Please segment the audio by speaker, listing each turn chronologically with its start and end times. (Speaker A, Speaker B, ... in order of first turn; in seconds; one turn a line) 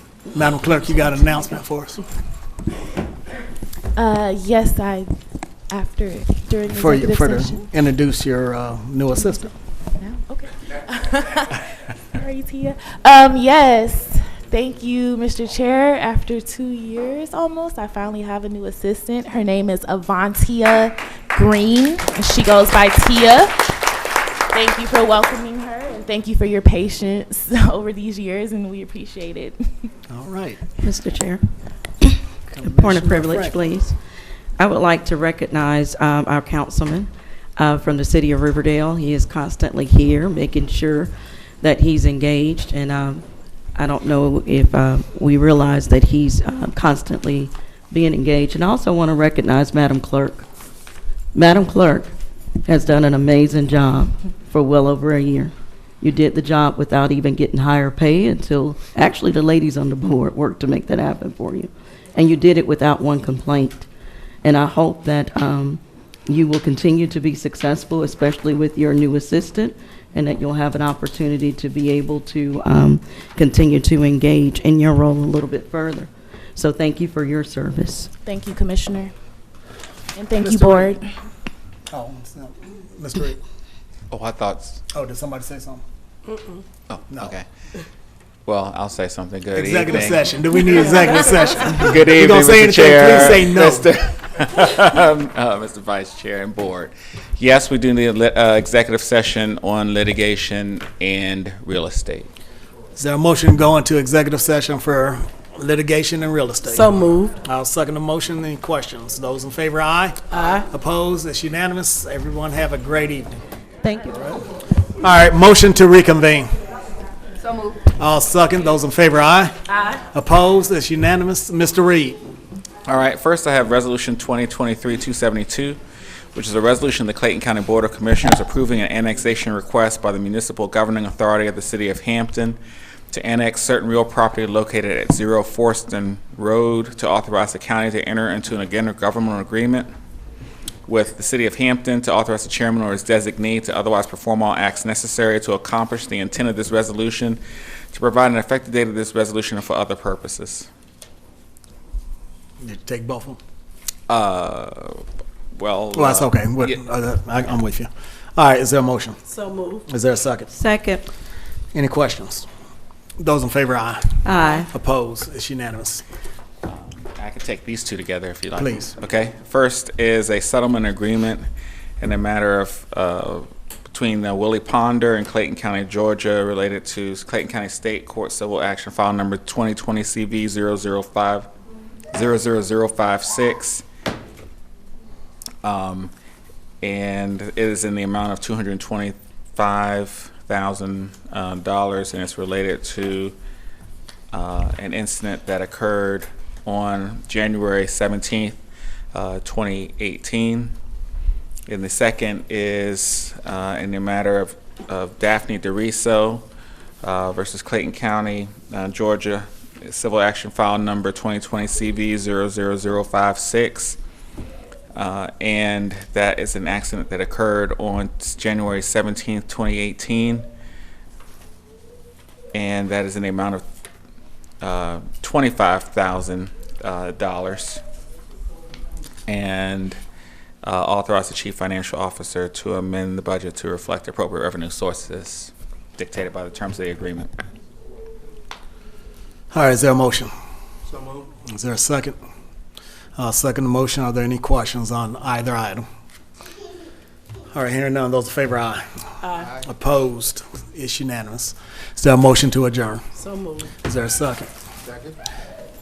Speaker A: 0.3-2.0
Speaker B: 4.0-5.1
Speaker B: 5.7-7.7
Speaker A: 6.8-9.5
Speaker B: 10.0-23.7
Speaker B: 24.5-29.9
Speaker A: 30.1-30.7
Speaker C: 30.8-31.4
Speaker C: 32.0-34.0
Speaker A: 32.5-33.7
Speaker C: 34.6-43.2
Speaker C: 43.8-50.5
Speaker C: 51.4-63.9
Speaker C: 64.4-78.1
Speaker B: 78.2-79.1
Speaker B: 80.2-81.1
Speaker A: 80.4-80.9
Speaker A: 81.9-83.4
Speaker D: 84.1-84.8
Speaker A: 84.9-85.8
Speaker D: 86.9-87.5
Speaker D: 88.5-102.3
Speaker A: 89.5-93.9
Speaker A: 103.0-113.4
Speaker E: 106.7-107.3
Speaker E: 110.3-110.7
Speaker C: 113.8-114.2
Speaker A: 115.0-116.5
Speaker A: 117.8-122.2
Speaker D: 122.9-125.8
Speaker D: 126.3-132.6
Speaker D: 133.1-139.9
Speaker D: 140.9-147.4
Speaker D: 147.9-150.7
Speaker A: 152.6-153.4
Speaker D: 154.1-155.0
Speaker D: 155.6-156.8
Speaker A: 155.9-159.2
Speaker E: 159.3-159.8
Speaker A: 159.9-160.5
Speaker C: 160.5-161.1
Speaker A: 161.7-162.5
Speaker A: 163.2-166.0
Speaker C: 164.2-164.7
Speaker D: 166.6-171.5
Speaker A: 168.6-169.0
Speaker D: 172.0-181.5
Speaker D: 182.1-183.8
Speaker D: 185.6-186.1
Speaker D: 186.8-193.4
Speaker D: 194.3-198.6
Speaker D: 199.1-200.7
Speaker D: 201.7-206.4
Speaker D: 207.0-214.0
Speaker D: 214.9-220.5
Speaker D: 222.5-223.7
Speaker D: 224.6-227.8
Speaker D: 229.3-230.0
Speaker D: 230.6-237.3
Speaker A: 239.5-240.3
Speaker A: 241.5-242.2
Speaker A: 243.2-245.9
Speaker A: 247.5-253.0
Speaker E: 253.2-253.7
Speaker A: 253.7-254.5